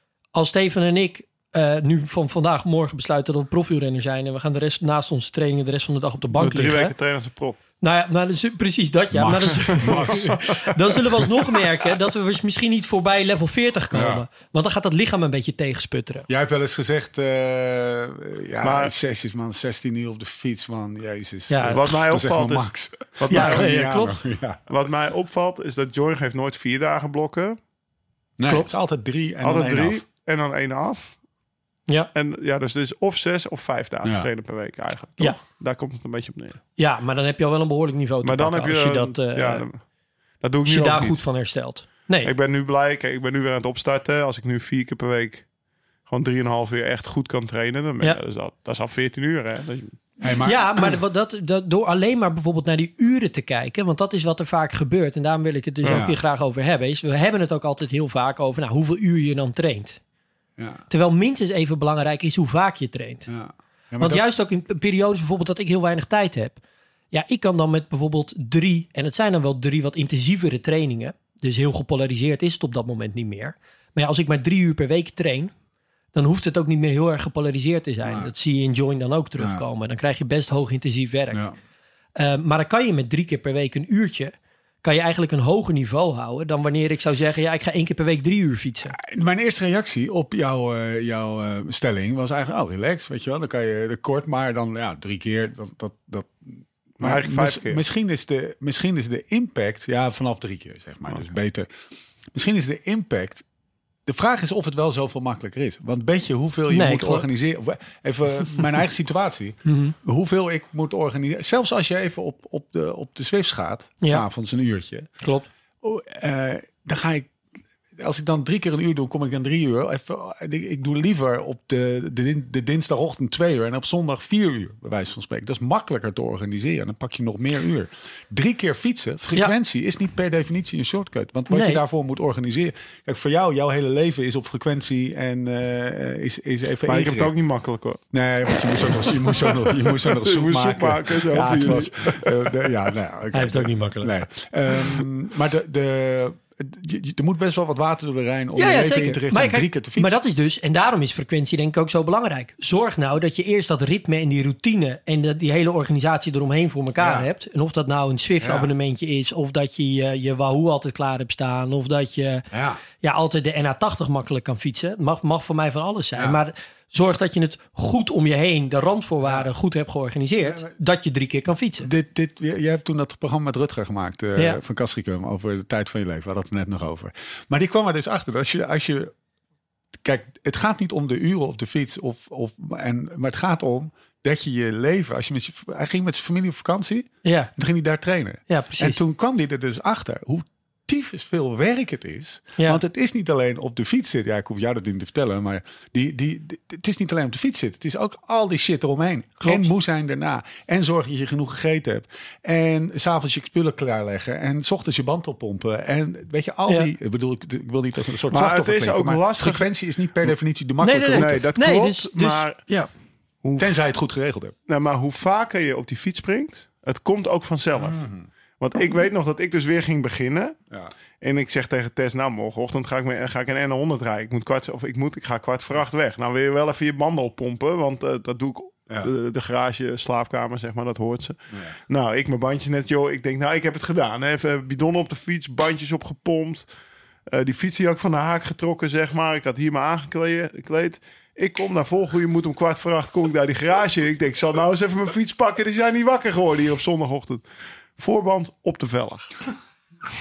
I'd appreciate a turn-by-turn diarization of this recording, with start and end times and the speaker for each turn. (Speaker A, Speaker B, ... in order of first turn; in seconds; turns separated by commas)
Speaker A: 0.3-6.9, Speaker B: 6.3-7.6, Speaker A: 7.8-16.3, Speaker C: 9.1-11.6, Speaker B: 9.8-10.2, Speaker C: 13.9-14.2, Speaker C: 16.3-24.6, Speaker B: 18.6-18.9, Speaker A: 21.5-21.8, Speaker B: 21.6-23.7, Speaker A: 23.3-24.2, Speaker B: 24.7-27.6, Speaker C: 28.4-30.0, Speaker B: 29.4-31.2, Speaker B: 32.1-36.6, Speaker C: 34.0-34.3, Speaker A: 36.8-39.6, Speaker B: 38.2-39.8, Speaker B: 40.4-41.2, Speaker A: 40.6-42.3, Speaker B: 42.2-45.5, Speaker B: 46.1-50.0, Speaker C: 50.2-51.0, Speaker A: 50.4-60.0, Speaker C: 55.9-56.2, Speaker C: 60.6-60.8, Speaker A: 60.9-63.3, Speaker C: 63.3-64.2, Speaker A: 64.0-66.6, Speaker A: 67.1-75.5, Speaker A: 76.1-81.5, Speaker C: 78.0-78.3, Speaker A: 82.2-89.0, Speaker C: 88.9-101.7, Speaker B: 97.0-97.8, Speaker C: 102.3-103.4, Speaker C: 104.0-115.1, Speaker A: 106.7-107.3, Speaker A: 109.7-109.9, Speaker A: 115.2-115.5, Speaker C: 115.8-117.3, Speaker C: 118.0-137.3, Speaker A: 131.5-131.8, Speaker B: 136.8-138.0, Speaker C: 138.1-150.1, Speaker B: 138.5-142.7, Speaker A: 143.3-144.1, Speaker A: 148.5-171.9, Speaker C: 157.0-157.3, Speaker C: 158.4-158.7, Speaker C: 162.5-162.8, Speaker C: 171.8-179.1, Speaker C: 180.0-211.4, Speaker A: 187.2-187.5, Speaker A: 188.5-189.0, Speaker A: 199.4-199.7, Speaker B: 208.3-209.7, Speaker A: 210.8-212.9, Speaker B: 211.1-212.6, Speaker B: 213.4-213.9, Speaker C: 213.6-214.5, Speaker B: 214.7-218.0, Speaker C: 217.8-218.3, Speaker B: 218.6-220.6, Speaker B: 221.2-236.7, Speaker B: 237.3-247.4, Speaker B: 248.0-249.4